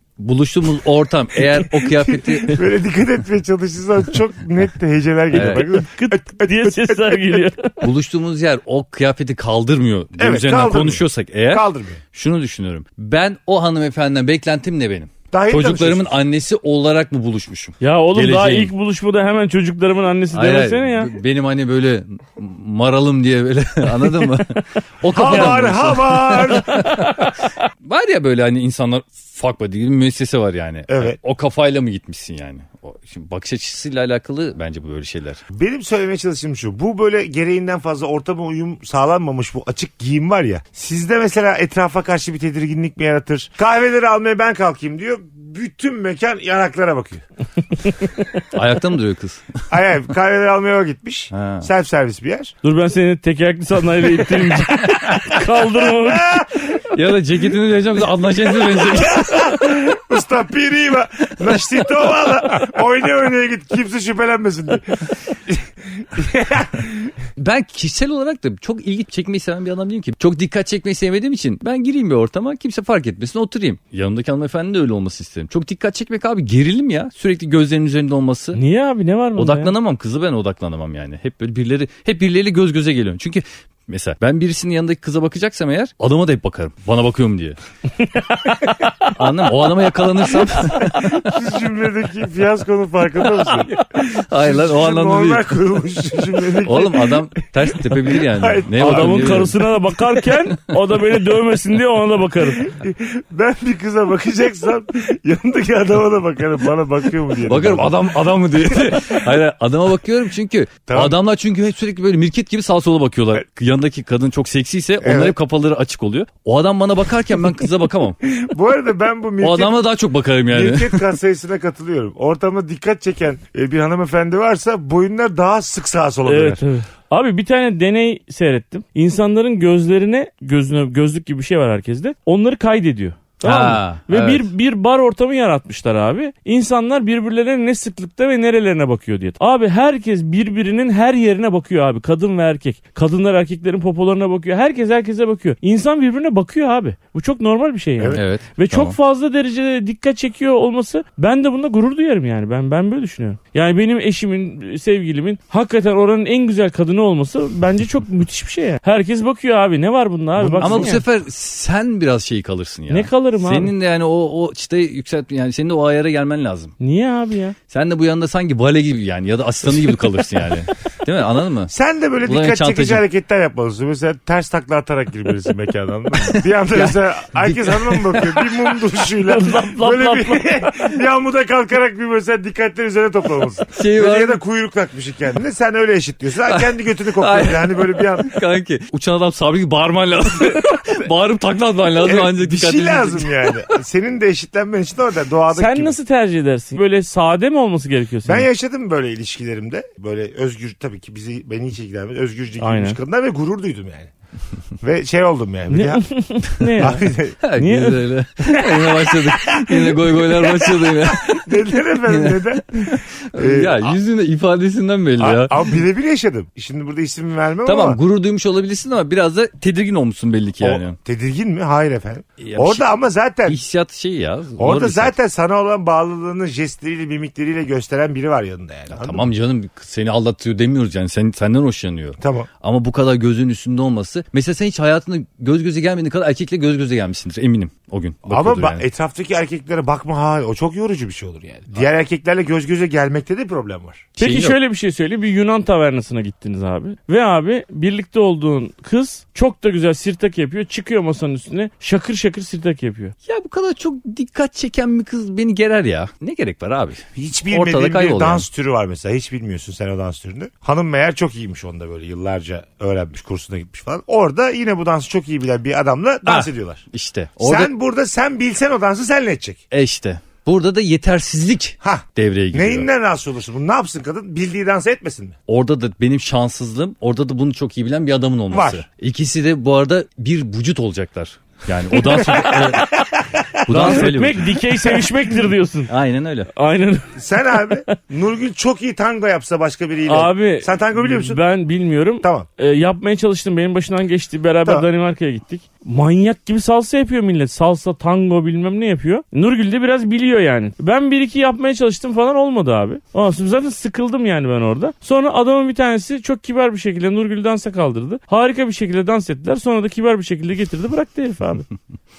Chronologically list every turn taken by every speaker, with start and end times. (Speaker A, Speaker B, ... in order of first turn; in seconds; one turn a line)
Speaker A: 0.2-2.6
Speaker B: 1.5-7.5
Speaker A: 5.3-5.7
Speaker C: 5.3-7.8
Speaker A: 7.8-18.7
Speaker B: 10.2-12.0
Speaker B: 15.3-16.1
Speaker C: 17.8-21.1
Speaker A: 20.3-27.3
Speaker C: 24.2-24.6
Speaker B: 25.1-27.0
Speaker C: 25.2-25.6
Speaker C: 26.7-27.2
Speaker A: 27.8-35.4
Speaker B: 30.9-31.2
Speaker B: 35.5-47.2
Speaker A: 48.5-49.5
Speaker B: 49.7-52.5
Speaker A: 51.3-51.7
Speaker C: 52.6-56.4
Speaker B: 55.9-56.8
Speaker A: 56.9-59.7
Speaker B: 58.7-67.2
Speaker A: 67.4-78.6
Speaker C: 78.5-79.7
Speaker A: 79.4-87.6
Speaker C: 88.1-89.1
Speaker A: 89.0-91.3
Speaker B: 90.8-99.5
Speaker A: 93.5-95.5
Speaker A: 96.6-99.6
Speaker C: 98.8-102.7
Speaker B: 102.6-108.1
Speaker A: 107.5-118.2
Speaker B: 108.7-109.3
Speaker B: 110.9-111.2
Speaker B: 115.0-115.4
Speaker B: 118.2-119.8
Speaker A: 119.4-121.1
Speaker B: 120.5-126.6
Speaker C: 126.3-161.1
Speaker A: 133.4-134.5
Speaker A: 148.2-149.0
Speaker B: 160.4-161.0
Speaker A: 160.6-166.7
Speaker C: 162.9-163.7
Speaker C: 166.8-167.6
Speaker A: 167.7-171.7
Speaker B: 171.7-188.3
Speaker A: 172.2-173.0
Speaker A: 176.2-178.5
Speaker C: 179.2-180.6
Speaker A: 183.7-184.4
Speaker A: 186.5-193.6
Speaker B: 191.9-195.9
Speaker C: 195.5-198.5
Speaker B: 198.3-204.1
Speaker C: 202.6-203.0
Speaker B: 204.8-206.1
Speaker C: 205.7-208.0
Speaker B: 206.8-207.4
Speaker A: 207.4-215.8
Speaker B: 208.4-214.0
Speaker B: 215.2-218.0
Speaker A: 217.7-221.0
Speaker B: 220.6-223.6
Speaker A: 222.4-222.9
Speaker A: 223.5-225.2
Speaker B: 224.6-229.3
Speaker A: 228.9-238.8
Speaker B: 232.2-232.5
Speaker B: 238.3-244.1
Speaker C: 244.2-253.1
Speaker A: 244.2-244.6
Speaker A: 253.3-258.5
Speaker B: 257.2-266.8
Speaker A: 266.3-267.7
Speaker B: 267.4-269.6
Speaker A: 269.7-272.9
Speaker B: 271.8-275.4
Speaker A: 275.5-282.9
Speaker B: 278.5-278.8
Speaker C: 282.1-283.1
Speaker B: 282.1-285.2
Speaker A: 283.7-284.6
Speaker C: 283.7-285.9
Speaker A: 285.9-286.5
Speaker C: 286.5-287.9
Speaker B: 287.1-291.4
Speaker C: 290.1-311.6
Speaker B: 292.2-292.5